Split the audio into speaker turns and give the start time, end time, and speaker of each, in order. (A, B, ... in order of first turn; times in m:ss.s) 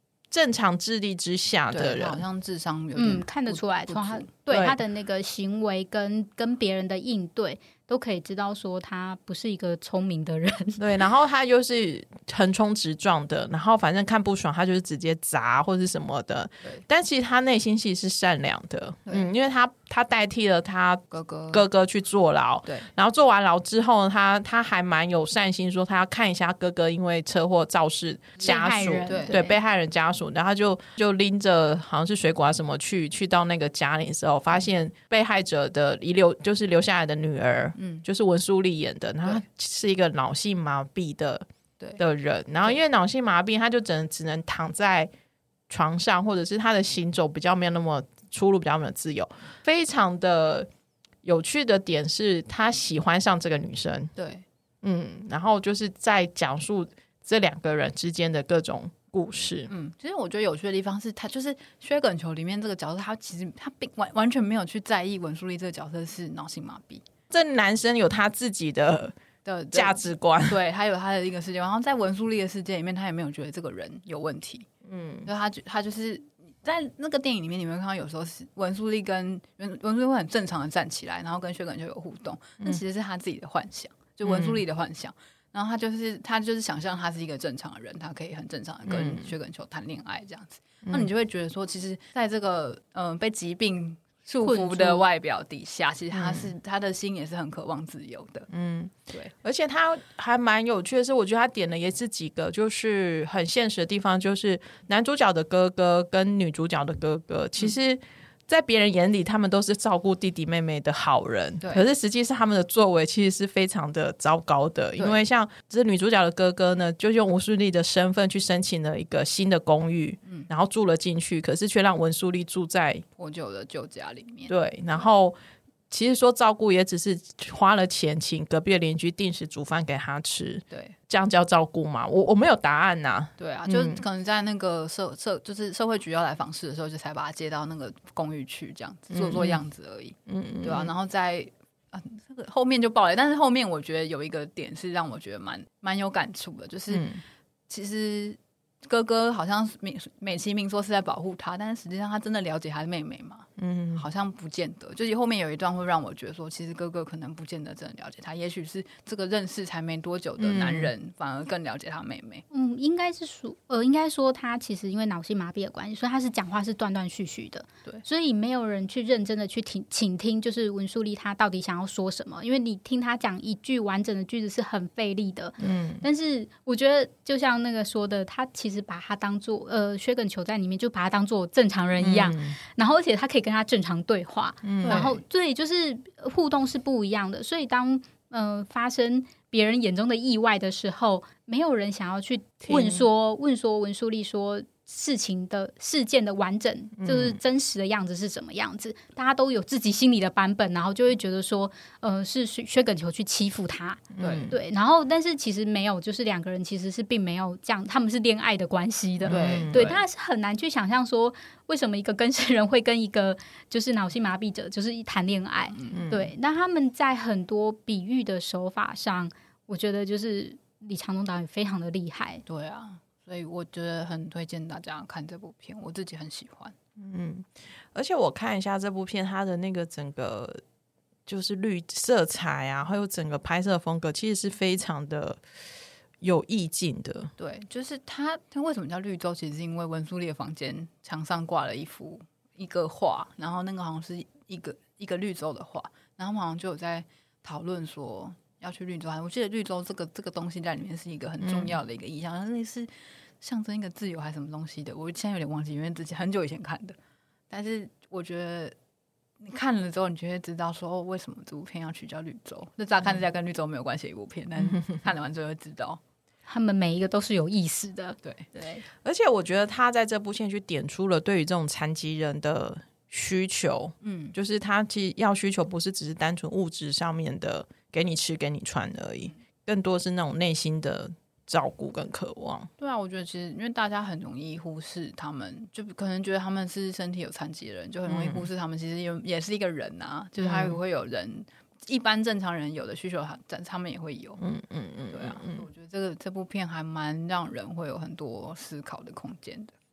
0:00.3-0:02.2 A
0:01.7-0:04.3 B
0:02.9-0:10.8 C
0:04.5-0:04.8 A
0:10.8-0:41.4 A
0:21.1-0:21.6 B
0:28.4-0:29.4 B
0:28.4-0:29.5 C
0:37.8-0:38.0 B
0:42.0-0:45.1 A
0:45.7-0:50.7 A
0:51.2-0:54.1 A
0:54.2-0:54.4 B
0:54.8-0:59.7 A
0:59.7-1:07.0 B
1:07.3-1:09.1 A
1:09.4-1:14.7 B
1:09.7-1:10.6 A
1:14.8-1:15.3 A
1:15.2-1:38.5 B
1:24.2-1:24.6 A
1:28.9-1:29.3 A
1:34.4-1:35.0 C
1:36.1-1:36.5 A
1:38.5-2:03.0 A
2:03.2-2:05.0 B
2:04.5-2:05.4 A
2:05.9-2:14.0 A
2:10.7-2:11.0 B
2:13.4-2:27.1 B
2:19.1-2:19.6 A
2:20.3-2:20.9 A
2:26.9-2:27.2 A
2:27.7-2:42.4 B
2:33.6-2:34.0 A
2:40.4-2:40.9 A
2:42.5-3:42.4 C
2:55.6-2:56.0 A
3:02.0-3:02.6 A
3:04.6-3:05.1 A
3:04.8-3:05.2 B
3:12.6-3:13.0 A
3:17.0-3:17.4 A
3:24.2-3:24.6 A
3:24.2-3:24.5 B
3:29.2-3:30.0 A
3:29.3-3:30.0 B
3:35.7-3:36.0 B
3:35.9-3:36.3 A
3:42.4-3:46.7 B
3:47.0-3:50.6 A
3:51.3-3:55.4 A
3:56.2-3:57.3 A
3:57.4-4:12.9 B
4:11.4-4:11.8 A
4:13.4-4:17.0 B
4:17.5-4:18.7 B
4:19.4-4:26.0 B
4:26.5-4:28.2 C
4:28.2-4:28.8 B
4:29.0-4:42.7 A
4:34.0-4:34.3 B
4:42.8-4:54.4 B
4:48.1-4:48.5 A
4:50.4-4:50.8 A
4:54.4-4:55.7 A
4:55.1-4:59.7 B